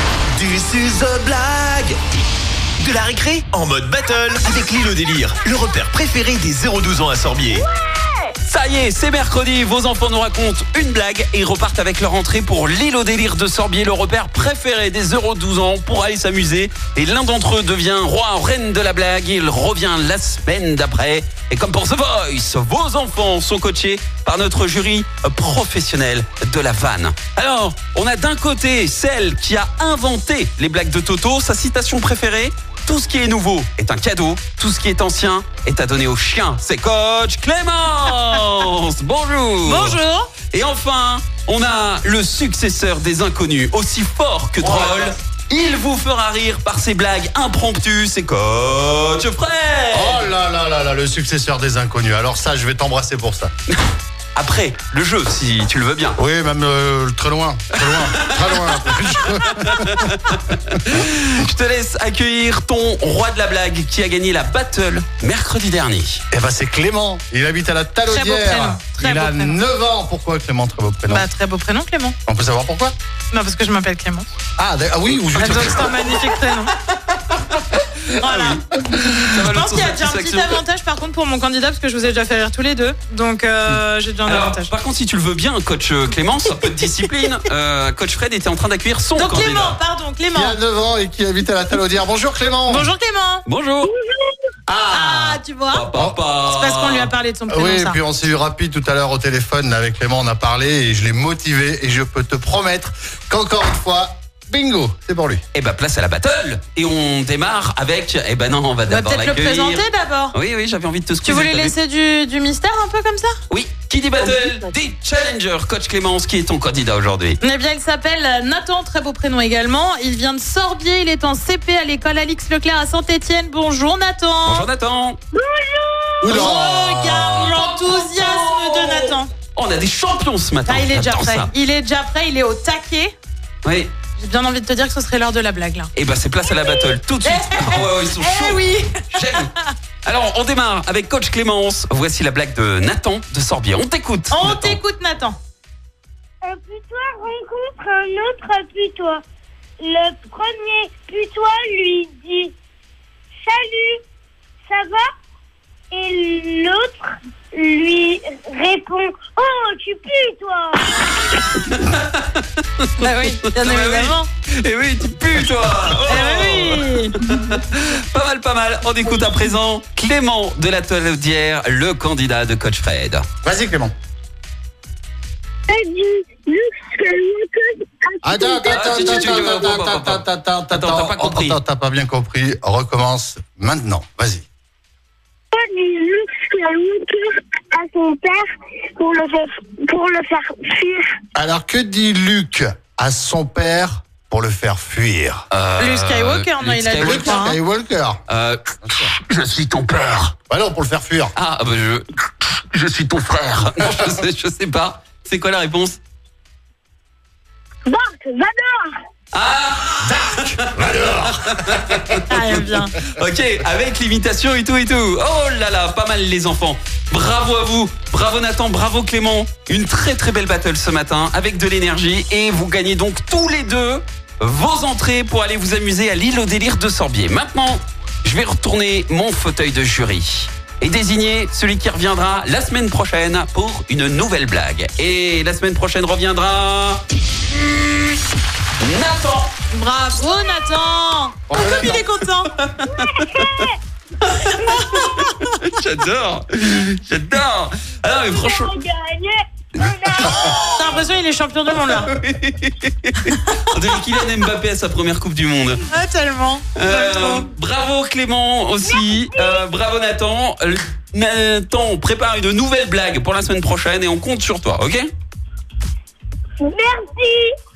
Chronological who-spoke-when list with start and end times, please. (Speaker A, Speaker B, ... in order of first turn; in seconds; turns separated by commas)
Speaker A: 0.4-2.0, Speaker A: 2.8-7.7, Speaker B: 7.5-8.3, Speaker C: 8.4-50.3, Speaker D: 39.6-40.3, Speaker E: 44.6-45.1, Speaker E: 49.9-53.5, Speaker C: 54.4-56.2, Speaker E: 56.2-60.1, Speaker C: 57.8-66.2, Speaker E: 66.3-71.3, Speaker D: 68.1-69.6, Speaker D: 71.0-72.2, Speaker E: 72.3-73.0, Speaker D: 73.3-74.3, Speaker E: 74.6-76.2, Speaker D: 75.4-76.7, Speaker C: 77.7-80.6, Speaker D: 78.2-84.7, Speaker C: 84.3-89.8, Speaker D: 89.2-90.6, Speaker E: 90.3-92.9, Speaker D: 92.7-93.4, Speaker C: 93.5-93.9, Speaker B: 93.9-94.3, Speaker E: 94.7-95.4, Speaker D: 94.9-95.9, Speaker C: 95.7-97.1, Speaker D: 96.4-98.0, Speaker E: 97.5-105.4, Speaker C: 105.5-111.7, Speaker D: 108.9-110.3, Speaker D: 111.2-113.3, Speaker C: 113.5-117.4, Speaker D: 117.4-124.7, Speaker C: 124.5-125.2, Speaker B: 125.3-126.5, Speaker C: 126.2-131.5, Speaker D: 126.3-129.3, Speaker E: 126.3-127.4, Speaker D: 130.7-133.1, Speaker C: 133.6-133.9, Speaker D: 134.2-135.9, Speaker C: 135.9-139.5, Speaker D: 136.5-139.7, Speaker C: 140.1-144.8, Speaker D: 144.3-145.4, Speaker B: 146.4-149.2, Speaker B: 149.8-152.5, Speaker B: 153.4-154.0, Speaker B: 154.7-155.1, Speaker B: 155.9-161.4, Speaker C: 161.3-173.3, Speaker D: 163.0-164.3, Speaker D: 166.1-167.1, Speaker E: 173.4-173.9, Speaker B: 175.7-179.6, Speaker E: 178.2-184.4, Speaker C: 178.7-181.6, Speaker B: 185.5-188.4, Speaker B: 189.0-191.1, Speaker E: 191.3-195.4, Speaker C: 195.5-197.5, Speaker D: 195.8-197.6, Speaker E: 197.0-198.2, Speaker C: 198.3-200.3, Speaker E: 198.8-199.1, Speaker E: 200.5-201.3, Speaker C: 201.4-202.1, Speaker C: 202.7-206.0, Speaker B: 207.9-208.9, Speaker C: 209.3-237.0, Speaker E: 210.1-212.4, Speaker D: 212.3-212.9, Speaker C: 238.8-239.5, Speaker D: 239.7-242.5, Speaker E: 241.5-242.1, Speaker C: 242.6-243.7, Speaker B: 242.9-243.8, Speaker C: 244.2-248.8, Speaker D: 244.4-245.1, Speaker B: 248.3-251.0, Speaker C: 249.8-250.6, Speaker D: 250.7-252.1, Speaker C: 251.7-255.9, Speaker D: 255.9-257.5, Speaker C: 256.8-265.1, Speaker B: 258.8-259.6, Speaker B: 266.6-267.5